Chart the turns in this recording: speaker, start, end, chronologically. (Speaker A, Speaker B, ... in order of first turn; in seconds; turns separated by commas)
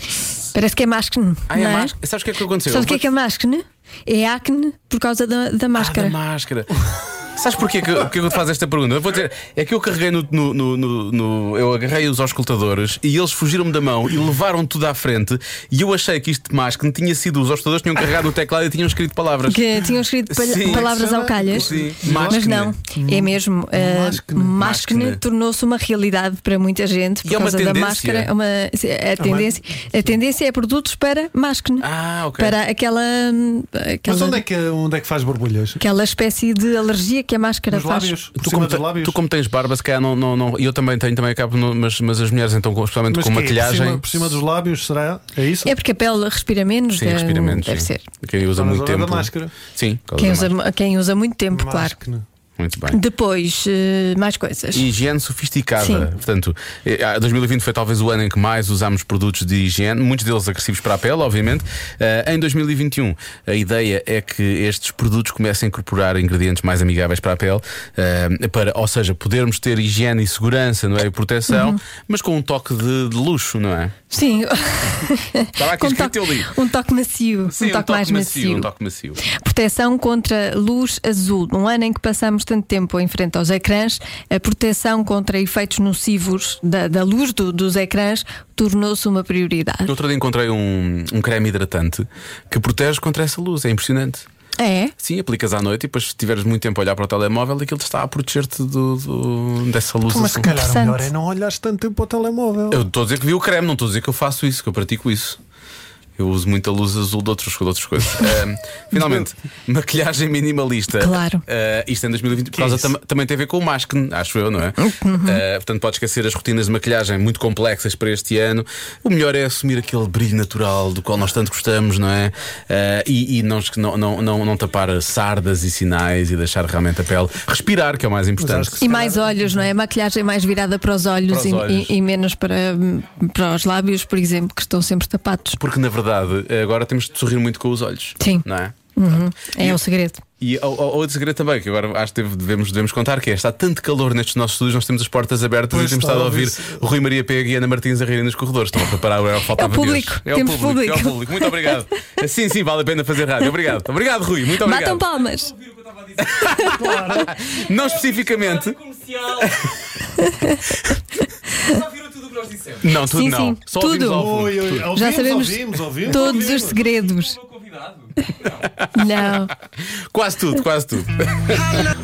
Speaker A: 0.5-2.0, Speaker B: 1.5-3.1, Speaker A: 2.7-6.2, Speaker B: 5.8-20.9, Speaker A: 19.5-34.4, Speaker C: 20.6-24.6, Speaker B: 21.5-22.7, Speaker B: 24.6-25.2, Speaker B: 27.2-28.3, Speaker C: 29.2-30.2, Speaker B: 31.8-32.6, Speaker C: 34.1-35.8, Speaker A: 35.8-38.1, Speaker C: 37.7-39.2, Speaker B: 38.4-44.4, Speaker C: 43.1-45.7, Speaker A: 45.7-48.1, Speaker B: 47.0-50.5, Speaker C: 48.5-49.5, Speaker A: 50.2-52.0, Speaker C: 51.5-52.2, Speaker B: 52.6-53.0, Speaker A: 52.9-54.9, Speaker B: 54.7-74.0, Speaker A: 55.8-56.1, Speaker A: 71.5-71.8, Speaker A: 74.1-78.7, Speaker B: 75.6-76.5, Speaker B: 77.5-79.2, Speaker A: 79.2-89.9, Speaker B: 89.8-94.3, Speaker A: 94.6-94.9, Speaker B: 95.0-100.5, Speaker C: 100.1-102.8, Speaker A: 100.5-101.1, Speaker B: 102.7-105.4, Speaker B: 106.2-128.8, Speaker A: 111.0-111.4, Speaker C: 112.6-112.9, Speaker A: 114.8-115.4, Speaker C: 128.4-129.7, Speaker A: 128.8-135.6, Speaker B: 131.3-131.9, Speaker B: 135.6-139.8, Speaker A: 138.2-140.2, Speaker B: 140.4-155.1, Speaker C: 145.7-146.8, Speaker A: 149.5-151.8, Speaker A: 154.6-155.6, Speaker B: 156.1-159.9, Speaker A: 156.4-156.7, Speaker C: 156.7-157.3, Speaker A: 160.2-160.6, Speaker B: 160.5-160.9, Speaker B: 162.0-164.9, Speaker A: 163.1-164.3, Speaker C: 164.1-166.8, Speaker A: 164.9-167.4, Speaker B: 167.6-171.9, Speaker A: 168.9-169.5